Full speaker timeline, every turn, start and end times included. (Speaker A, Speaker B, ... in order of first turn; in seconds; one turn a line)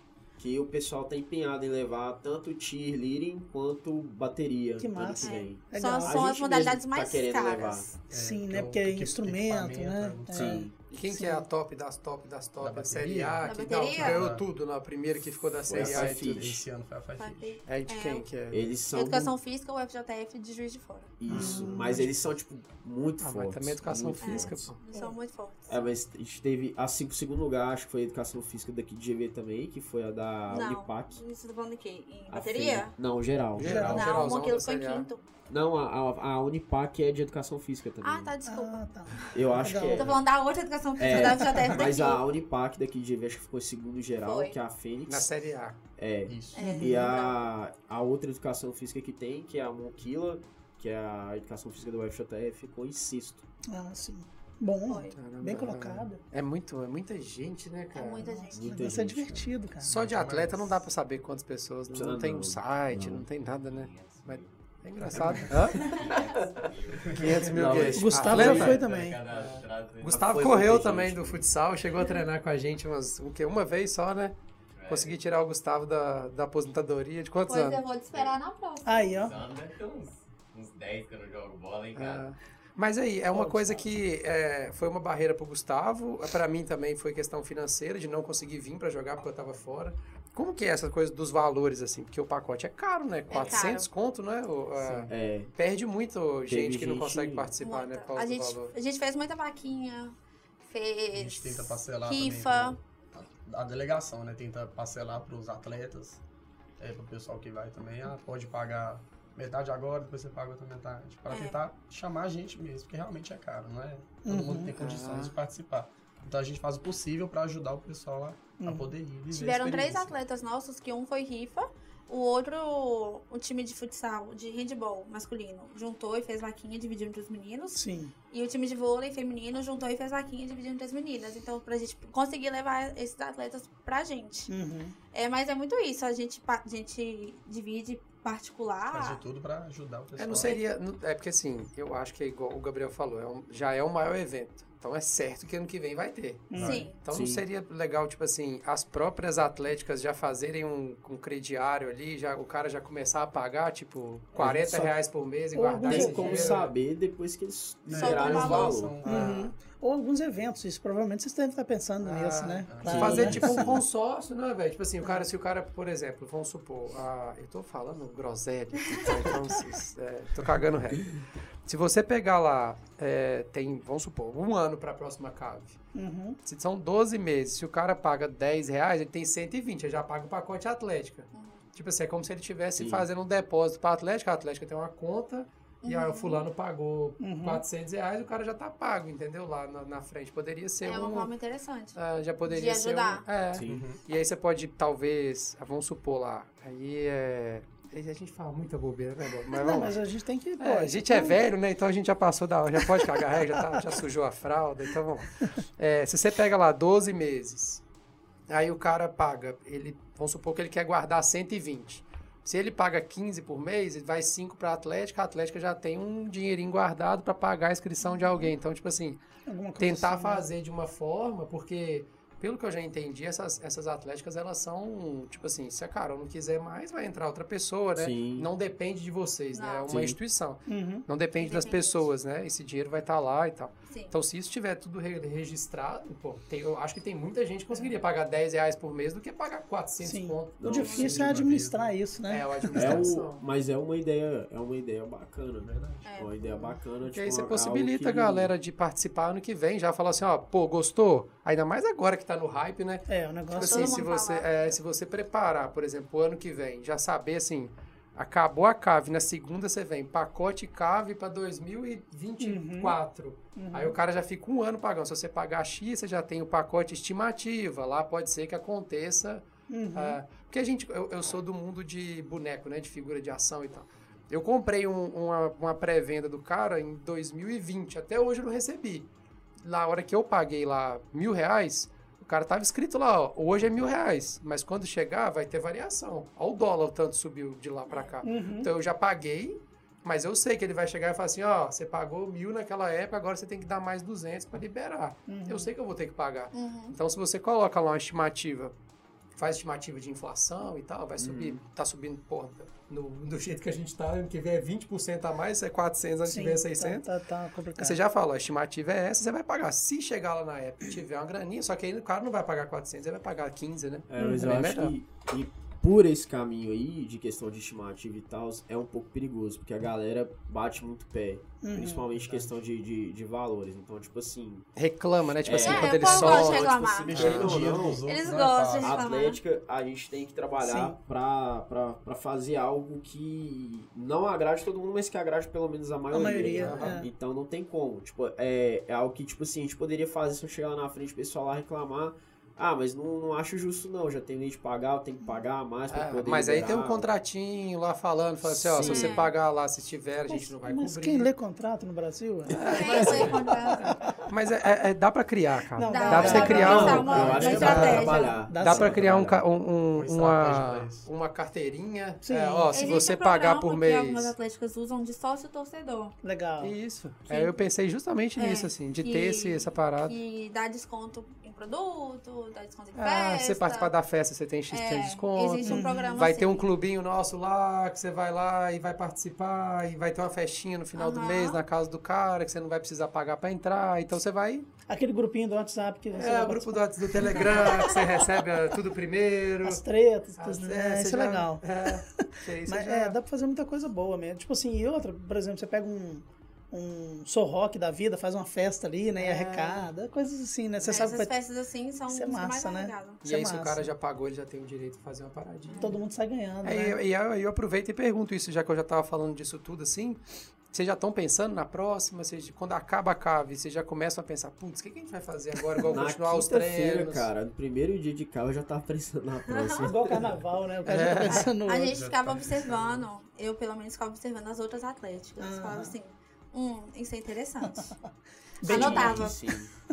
Speaker A: 0.4-8.0
Speaker B: 4.8-6.3
Speaker C: 5.2-7.9
Speaker B: 8.1-11.5
Speaker D: 8.1-10.6
Speaker A: 10.3-10.8
Speaker E: 10.9-16.6
Speaker D: 12.6-14.4
Speaker C: 13.4-14.3
Speaker A: 15.7-16.6
Speaker D: 15.7-17.6
Speaker C: 17.2-18.3
Speaker E: 17.7-18.6
Speaker A: 18.5-19.4
Speaker C: 18.9-21.1
Speaker A: 21.2-24.8
Speaker D: 21.3-22.1
Speaker B: 21.3-22.1
Speaker E: 23.2-24.8
Speaker C: 24.2-25.8
Speaker A: 25.7-31.2
Speaker C: 30.5-33.0
Speaker A: 32.3-34.1
Speaker E: 33.6-35.1
Speaker B: 33.6-34.2
Speaker C: 33.9-35.2
Speaker A: 35.5-38.4
Speaker C: 38.0-39.3
Speaker B: 38.5-40.1
Speaker A: 39.3-40.2
Speaker C: 39.9-42.2
Speaker A: 41.0-45.3
Speaker B: 41.2-41.7
Speaker C: 44.2-44.6
Speaker E: 45.1-45.8
Speaker A: 46.0-53.5
Speaker D: 46.3-46.7
Speaker C: 46.5-47.5
Speaker B: 46.6-47.1
Speaker B: 53.7-56.2
Speaker C: 54.9-55.2
Speaker E: 55.2-58.3
Speaker C: 57.9-58.6
Speaker B: 58.2-59.9
Speaker A: 58.5-59.5
Speaker E: 59.8-65.8
Speaker D: 59.9-60.8
Speaker A: 61.9-63.3
Speaker F: 63.5-64.5
Speaker D: 65.0-65.7
Speaker F: 65.1-70.5
Speaker A: 65.5-66.1
Speaker C: 65.8-66.2
Speaker E: 67.1-68.8
Speaker A: 67.2-68.9
Speaker B: 68.0-69.2
Speaker E: 69.3-74.4
Speaker A: 70.0-71.5
Speaker F: 74.8-75.1
Speaker E: 74.9-77.8
Speaker C: 77.5-79.3
Speaker B: 78.8-79.4
Speaker F: 79.1-82.3
Speaker E: 82.0-98.7
Speaker D: 83.4-83.9
Speaker C: 93.3-93.9
Speaker D: 94.8-95.1
Speaker A: 95.1-95.5
Speaker A: 96.5-97.5
Speaker C: 97.6-102.8
Speaker D: 101.1-106.2
Speaker D: 106.8-120.2
Speaker C: 111.3-111.6
Speaker B: 114.2-114.7
Speaker E: 114.8-115.3
Speaker B: 118.6-118.9
Speaker C: 119.3-134.5
Speaker B: 127.7-128.1
Speaker B: 134.5-134.9
Speaker C: 135.1-139.2
Speaker D: 138.9-140.6
Speaker E: 140.2-156.7
Speaker C: 140.3-140.6
Speaker B: 146.5-146.9
Speaker D: 146.6-146.9
Speaker C: 146.6-147.0
Speaker A: 147.1-147.4
Speaker A: 154.4-155.0
Speaker B: 155.5-156.7
Speaker A: 155.8-159.0
Speaker D: 157.9-159.5
Speaker C: 157.9-158.9
Speaker B: 159.0-163.7
Speaker E: 162.0-175.8
Speaker D: 162.7-163.6
Speaker A: 162.8-163.8
Speaker B: 175.9-176.4
Speaker E: 176.4-191.3
Speaker C: 181.3-181.6
Speaker A: 182.8-183.1
Speaker C: 185.8-186.4
Speaker B: 187.2-187.6
Speaker C: 190.8-193.2
Speaker E: 191.9-200.0
Speaker A: 193.5-193.9
Speaker D: 193.6-194.0
Speaker B: 199.5-201.4
Speaker E: 200.6-207.8
Speaker E: 208.5-219.2
Speaker C: 218.0-218.5
Speaker B: 219.5-220.5
Speaker E: 219.8-241.4
Speaker A: 228.0-228.5
Speaker C: 229.5-230.0
Speaker A: 229.9-230.2
Speaker B: 230.7-231.1
Speaker C: 231.4-232.1
Speaker C: 233.9-234.2
Speaker B: 240.0-243.1
Speaker A: 240.6-241.2
Speaker C: 240.7-241.0
Speaker D: 241.0-242.0
Speaker E: 242.3-243.4
Speaker A: 242.8-248.5
Speaker D: 245.6-246.1
Speaker C: 246.0-246.8
Speaker E: 247.0-279.1
Speaker B: 253.1-254.1
Speaker C: 253.6-254.8
Speaker B: 262.4-263.0
Speaker B: 263.6-264.0
Speaker B: 269.7-270.2
Speaker E: 279.6-298.7
Speaker C: 287.9-288.2
Speaker B: 288.2-288.7
Speaker B: 295.3-295.7
Speaker C: 296.5-296.9
Speaker E: 299.4-307.1
Speaker A: 301.2-301.6
Speaker B: 306.2-308.0
Speaker E: 307.8-314.9
Speaker A: 314.1-324.7
Speaker B: 321.6-322.1
Speaker D: 322.1-322.5
Speaker E: 324.8-327.7
Speaker A: 325.4-328.0
Speaker C: 325.5-329.4
Speaker D: 327.1-329.1
Speaker A: 328.8-347.1
Speaker B: 330.6-331.0
Speaker B: 336.1-337.1
Speaker E: 336.6-337.1
Speaker E: 345.9-351.3
Speaker A: 348.4-349.3
Speaker C: 348.8-349.3
Speaker B: 350.3-354.3
Speaker A: 352.5-353.4
Speaker E: 352.6-353.4
Speaker C: 352.6-353.9
Speaker E: 354.2-358.0
Speaker B: 355.7-359.0
Speaker C: 355.9-358.4
Speaker A: 356.1-359.4
Speaker D: 357.4-358.1
Speaker E: 358.6-364.3
Speaker D: 359.9-361.1
Speaker B: 362.2-362.9
Speaker C: 362.7-366.1
Speaker B: 366.2-366.8
Speaker E: 366.6-370.1
Speaker C: 367.3-367.6
Speaker C: 368.4-373.9
Speaker E: 372.9-384.7
Speaker C: 374.7-376.7
Speaker B: 375.6-376.2
Speaker C: 381.0-381.6
Speaker B: 384.9-388.3
Speaker E: 386.1-389.8
Speaker B: 389.6-401.3
Speaker E: 390.4-393.2
Speaker E: 399.2-399.9
Speaker C: 400.9-403.2
Speaker B: 402.1-403.9
Speaker E: 403.2-405.9
Speaker C: 405.7-406.0
Speaker B: 405.8-407.0
Speaker E: 406.6-417.3
Speaker A: 415.9-420.4
Speaker C: 419.5-419.9
Speaker B: 419.8-422.0
Speaker E: 420.9-421.5
Speaker C: 421.3-427.9
Speaker D: 421.8-423.1
Speaker B: 425.4-425.9
Speaker B: 427.7-427.9
Speaker B: 428.6-429.3
Speaker C: 428.6-429.4
Speaker A: 428.6-429.7